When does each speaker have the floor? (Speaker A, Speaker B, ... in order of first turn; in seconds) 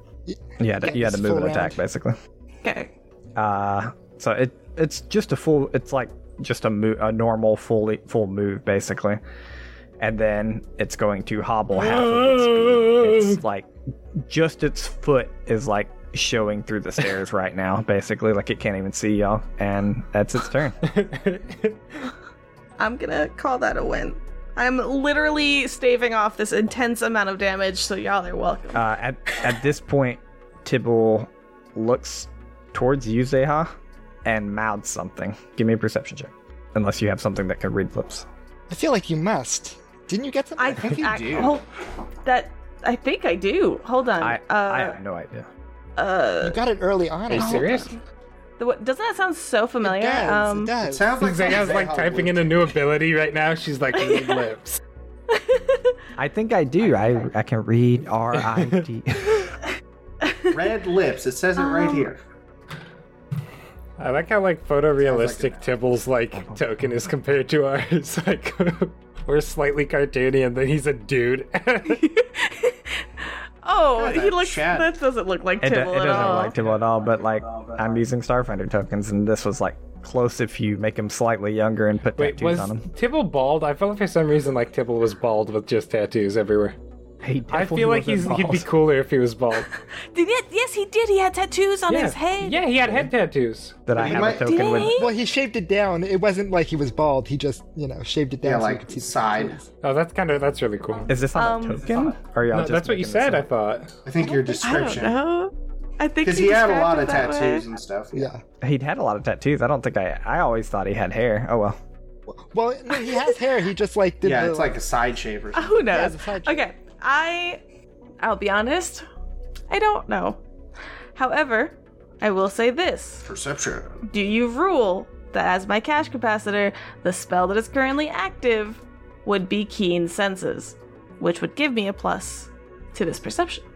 Speaker A: 0.2-1.8, 38.7-40.9, 46.4-47.7, 49.8-51.1, 95.0-99.6, 104.2-104.9, 108.1-108.4, 112.3-114.8, 115.8-116.6
Speaker B: 0.6-2.1, 3.4-9.2, 10.0-13.7, 14.2-20.8, 28.7-33.7, 34.2-38.3, 44.2-45.5, 56.2-59.5, 75.6-82.8, 87.2-88.7, 93.9-95.0, 101.1-103.5, 108.6-111.8
Speaker C: 2.6-2.9, 22.8-28.8, 40.6-41.6, 42.2-45.0, 46.0-46.6, 47.3-48.0, 48.6-50.7, 54.0-54.4, 55.3-55.9, 60.2-60.5, 61.6-62.1, 71.9-73.0, 73.6-76.5, 89.8-92.6, 94.2-95.1, 101.3-102.1, 104.6-107.6, 115.5-117.6, 118.2-119.0, 119.7-120.4, 121.2-123.3, 124.1-133.6
Speaker D: 11.8-13.4, 20.8-21.8, 47.3-47.9, 51.1-54.8, 58.3-58.8, 64.0-72.0, 82.2-86.7, 87.5-89.7, 91.9-93.9, 99.8-101.1, 102.5-103.9
Speaker E: 40.7-41.6, 50.8-52.7, 60.4-62.2, 65.0-65.7, 73.9-74.9, 93.9-94.9, 98.4-99.6, 104.0-105.2, 106.2-108.3, 114.2-116.1, 123.2-124.0